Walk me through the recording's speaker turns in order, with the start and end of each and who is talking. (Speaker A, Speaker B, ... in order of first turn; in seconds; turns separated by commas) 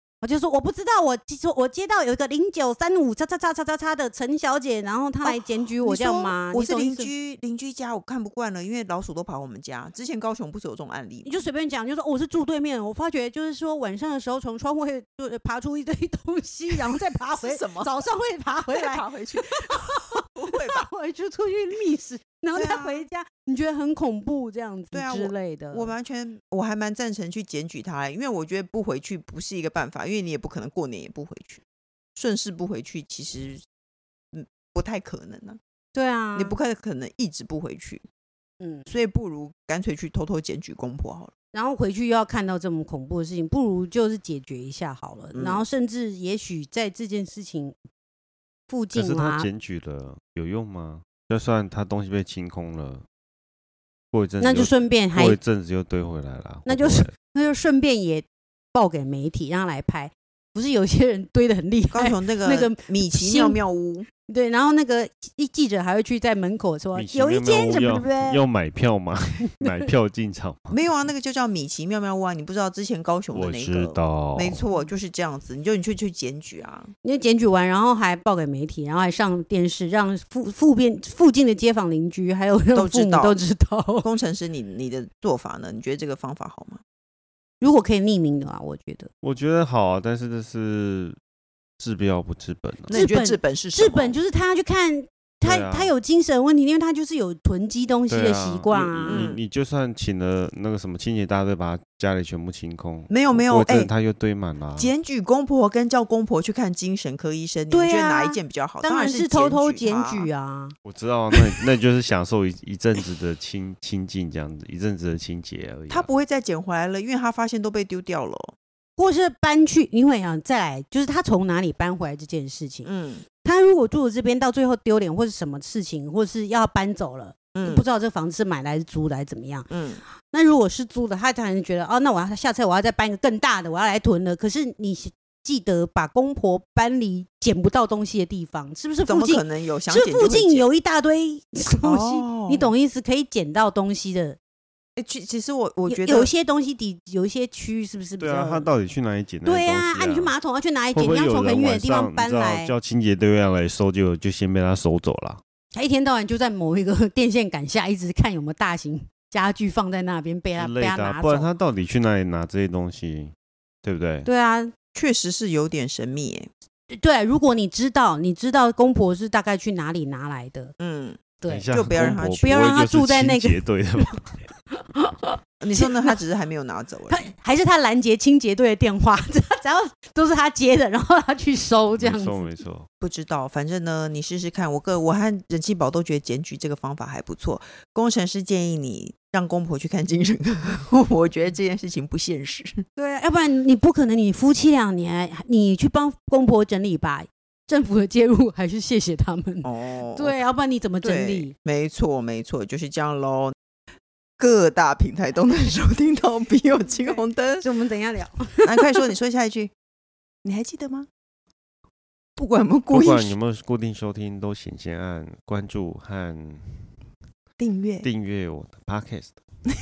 Speaker A: 0.2-7.1, Speaker B: 5.2-11.4, Speaker A: 11.2-25.9, Speaker B: 17.4-17.9, Speaker B: 18.7-19.8, Speaker B: 20.3-20.8, Speaker B: 22.5-23.0, Speaker B: 24.9-31.6, Speaker B: 32.1-33.6, Speaker B: 34.3-35.6, Speaker A: 35.9-36.6, Speaker B: 36.3-38.0, Speaker A: 38.6-38.9, Speaker B: 38.9-41.3, Speaker A: 41.5-47.8, Speaker B: 45.3-45.6, Speaker A: 48.7-49.5, Speaker C: 48.9-53.0, Speaker C: 54.1-57.1, Speaker A: 54.4-55.4, Speaker A: 56.6-63.6, Speaker B: 61.9-64.1, Speaker A: 64.3-68.4, Speaker C: 66.9-70.8, Speaker B: 70.7-76.9, Speaker C: 73.3-74.6, Speaker A: 77.0-84.1, Speaker B: 82.7-83.4, Speaker B: 84.0-86.8, Speaker A: 87.6-89.1, Speaker C: 89.2-91.2, Speaker C: 91.8-93.0, Speaker B: 92.9-94.2, Speaker A: 92.9-99.3, Speaker C: 95.4-95.9, Speaker C: 98.1-104.9, Speaker B: 99.1-99.4, Speaker B: 103.1-103.9, Speaker B: 104.8-110.3, Speaker A: 107.7-110.7, Speaker C: 110.8-116.1, Speaker B: 115.9-118.5, Speaker A: 119.0-122.9, Speaker B: 122.8-123.2, Speaker A: 123.4-129.7, Speaker B: 127.5-127.8, Speaker B: 129.7-130.0, Speaker A: 130.2-144.4, Speaker B: 139.1-140.7, Speaker B: 141.7-142.7, Speaker B: 144.9-146.3, Speaker A: 145.9-148.7, Speaker C: 148.2-150.3, Speaker A: 149.4-152.7, Speaker C: 150.9-155.4, Speaker A: 155.7-161.5, Speaker C: 160.6-164.3, Speaker A: 164.2-164.7, Speaker B: 164.9-166.5, Speaker A: 166.9-170.7, Speaker B: 170.8-172.6, Speaker A: 171.4-171.7, Speaker C: 171.4-174.2, Speaker A: 172.4-174.1, Speaker A: 174.7-176.1, Speaker B: 175.6-177.3, Speaker A: 177.1-182.4, Speaker C: 182.0-182.9, Speaker B: 183.0-192.8, Speaker A: 193.0-201.5, Speaker B: 199.6-200.4, Speaker B: 201.0-203.5, Speaker B: 204.4-207.6, Speaker A: 206.9-208.8, Speaker B: 208.6-209.7, Speaker B: 210.4-211.1, Speaker B: 212.4-213.3, Speaker C: 212.9-216.9, Speaker B: 217.6-218.1, Speaker C: 218.0-219.4